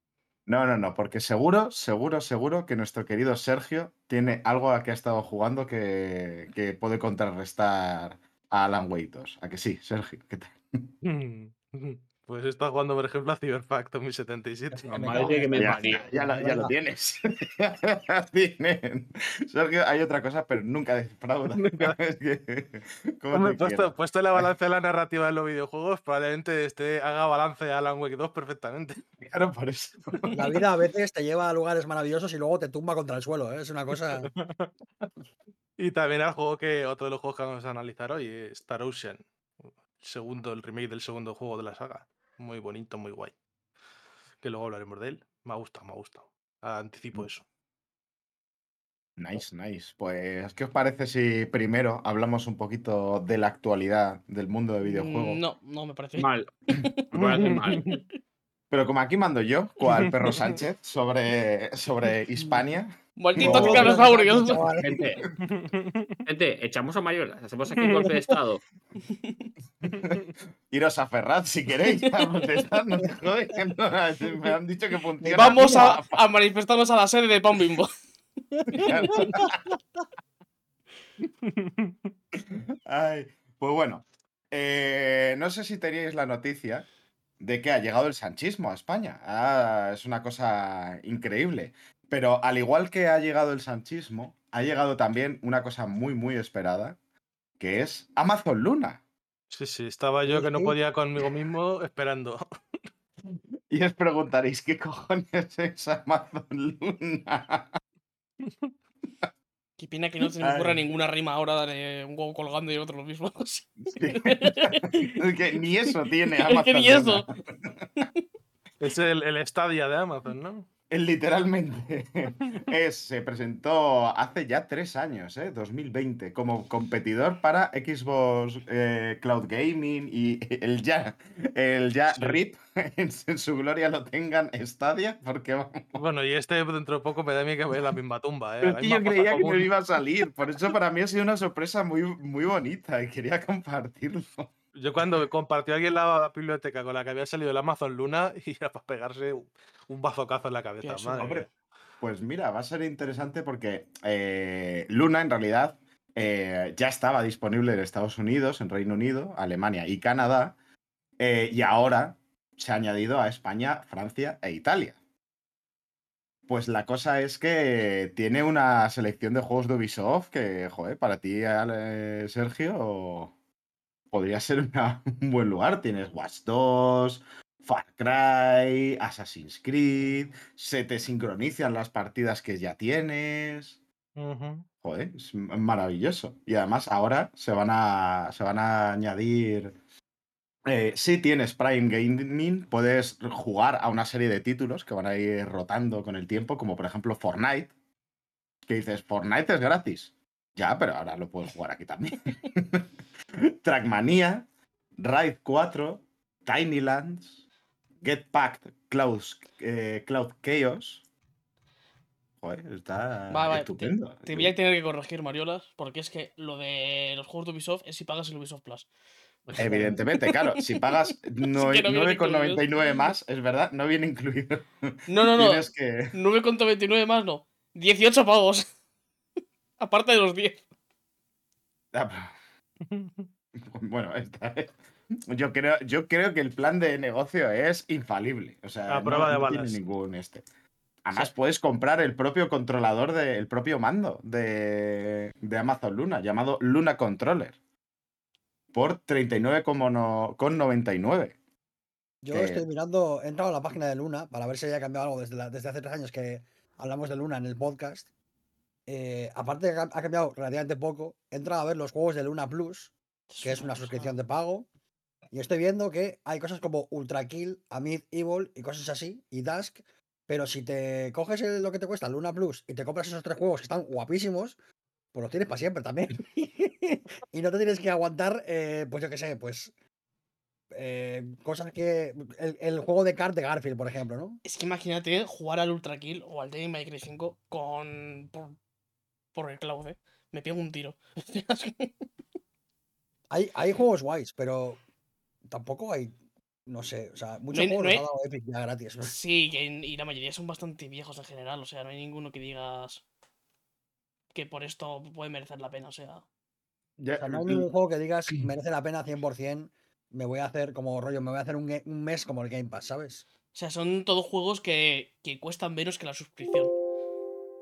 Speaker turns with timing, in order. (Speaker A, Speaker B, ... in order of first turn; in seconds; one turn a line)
Speaker A: 0.5-10.9
Speaker B: 11.0-15.4
Speaker C: 14.7-16.7
Speaker D: 14.9-16.7
Speaker A: 15.6-24.5
Speaker B: 21.5-22.0
Speaker B: 23.3-29.0
Speaker A: 29.2-30.2
Speaker C: 30.3-34.3
Speaker B: 34.2-34.7
Speaker B: 35.8-39.2
Speaker B: 40.0-43.3
Speaker B: 44.4-47.4
Speaker A: 49.2-55.4
Speaker E: 54.8-57.0
Speaker D: 56.2-56.5
Speaker D: 57.1-58.0
Speaker B: 57.2-58.0
Speaker E: 57.6-58.0
Speaker A: 58.7-64.0
Speaker E: 63.2-64.8
Speaker C: 63.4-65.1
Speaker D: 64.8-65.2
Speaker B: 65.4-66.2
Speaker D: 66.3-68.6
Speaker B: 67.8-68.1
Speaker E: 69.1-69.5
Speaker A: 69.8-70.2
Speaker A: 70.7-76.2
Speaker E: 72.0-72.6
Speaker C: 75.2-75.9
Speaker E: 75.3-77.9
Speaker E: 78.7-79.5
Speaker A: 78.7-79.7
Speaker B: 81.5-82.1
Speaker A: 82.5-86.9
Speaker A: 87.4-97.0
Speaker A: 97.6-99.0
Speaker B: 99.5-102.5
Speaker C: 100.3-100.8
Speaker A: 103.7-107.8
Speaker E: 109.8-115.2
Speaker A: 110.4-110.8
Speaker A: 113.8-117.8
Speaker E: 116.4-117.4
Speaker E: 118.0-118.2
Speaker B: 118.8-120.7
Speaker A: 120.9-136.0
Speaker B: 132.1-132.4
Speaker B: 135.9-139.7
Speaker A: 138.6-144.5
Speaker B: 144.8-151.4
Speaker E: 150.8-151.4
Speaker A: 151.2-151.5
Speaker A: 152.0-160.6
Speaker A: 161.2-165.0
Speaker A: 166.5-173.3
Speaker A: 174.1-183.8
Speaker B: 184.2-184.6
Speaker A: 184.8-189.8
Speaker A: 190.7-197.7
Speaker A: 198.7-202.9
Speaker A: 203.5-207.4
Speaker A: 208.0-211.0
Speaker A: 212.4-214.5
Speaker E: 213.3-218.9
Speaker E: 219.5-220.9
Speaker B: 219.5-219.8
Speaker A: 219.6-226.1
Speaker E: 221.5-222.6
Speaker E: 225.1-228.7
Speaker E: 229.8-230.6
Speaker A: 231.9-232.3
Speaker B: 232.9-233.3
Speaker A: 233.6-234.8
Speaker A: 235.3-240.4
Speaker B: 238.9-239.8
Speaker A: 241.1-247.6
Speaker A: 248.7-251.4
Speaker C: 252.2-258.1
Speaker A: 252.3-252.6
Speaker C: 258.9-264.7
Speaker E: 263.3-264.1
Speaker C: 265.3-274.6
Speaker C: 275.1-279.7
Speaker C: 280.7-284.4
Speaker E: 284.4-288.6
Speaker E: 289.3-291.9
Speaker C: 293.3-294.8
Speaker C: 295.5-296.1
Speaker C: 296.7-299.1
Speaker E: 297.5-298.1
Speaker E: 299.1-303.0
Speaker E: 304.3-306.2
Speaker A: 307.0-307.6
Speaker C: 307.2-313.2
Speaker E: 313.5-316.7